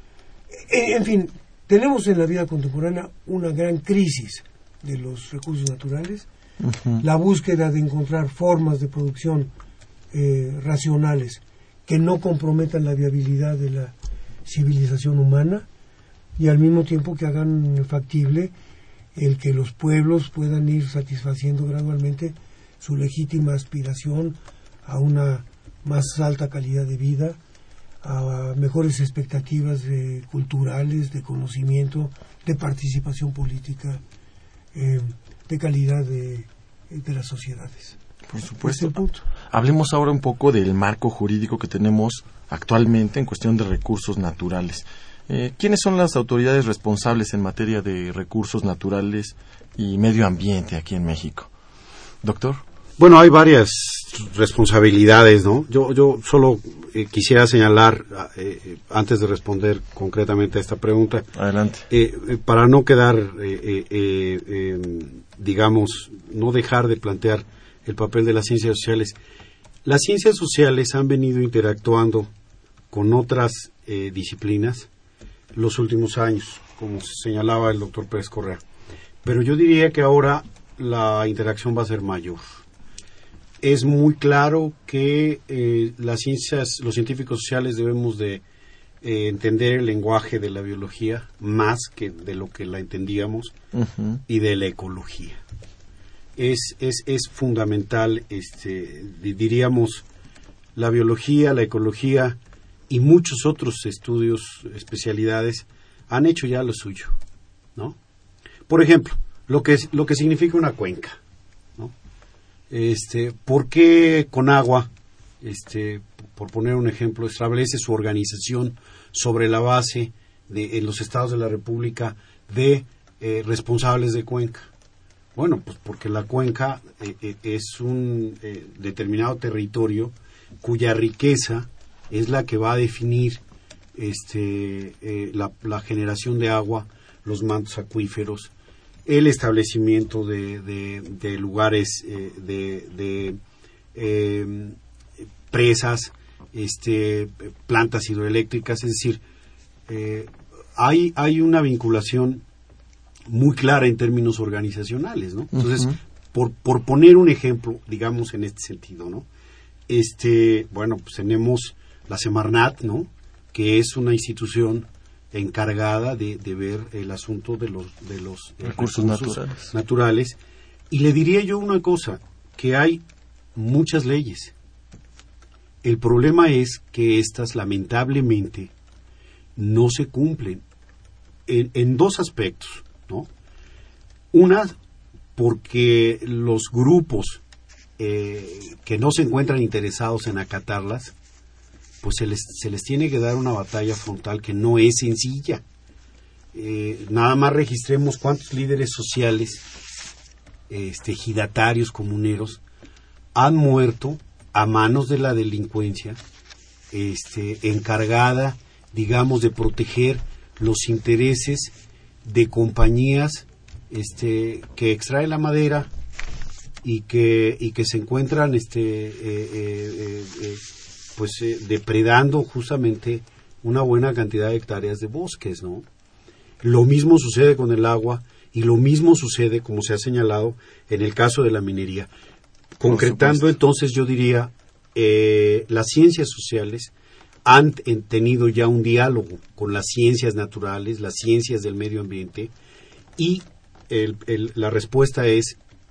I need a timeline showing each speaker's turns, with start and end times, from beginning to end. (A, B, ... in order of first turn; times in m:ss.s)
0:00.5-0:06.3 A
0:06.6-0:07.0 B
0:07.0-0:09.5 A
0:10.1-0:13.9 A
0:14.4-0:15.7 A
0:16.4-0:18.5 A
0:19.2-0:27.4 A
0:28.0-0:34.0 A
0:34.7-0:38.0 A
0:38.3-0:39.0 B
0:38.6-0:39.3 A
0:39.5-0:51.5 B
0:52.2-0:52.6 B
0:53.0-1:01.3 C
1:01.4-1:01.9 B
1:01.9-1:09.2 C
1:09.8-1:12.3 C
1:12.9-1:14.9 C
1:15.5-1:18.6 C
1:19.2-1:22.6 C
1:23.6-1:28.4 C
1:29.0-1:33.5 C
1:33.7-1:34.2 B
1:34.3-1:35.4 C
1:36.4-1:40.0 C
1:40.8-1:42.4 C
1:42.9-1:47.2 C
1:48.7-1:51.2 C
1:52.7-1:54.9 C
1:55.4-2:04.7 C
2:05.4-2:13.4 C
2:14.0-2:18.5 C
2:19.1-2:23.4 C
2:23.9-2:24.8 C
2:25.5-2:29.2 C
2:29.9-2:32.4 C
2:33.3-2:39.3 C
2:35.5-2:35.9 B
2:39.9-2:50.4 C
2:48.6-2:49.7 B
2:50.9-2:53.0 C
2:53.6-2:54.5 C
2:55.8-2:58.7 C
2:59.6-3:00.6 C
3:01.5-3:03.3 C
3:04.3-3:04.8 C
3:05.4-3:07.4 C
3:08.0-3:11.1 C
3:12.0-3:15.6 C
3:16.5-3:19.6 C
3:20.7-3:22.6 C
3:23.4-3:26.2 C
3:26.9-3:35.9 C
3:36.8-3:40.6 C
3:41.2-3:45.9 C
3:46.6-3:52.1 C
3:52.8-3:56.9 C
3:52.9-3:53.4 B
3:57.4-4:02.5 C
4:03.2-4:05.6 C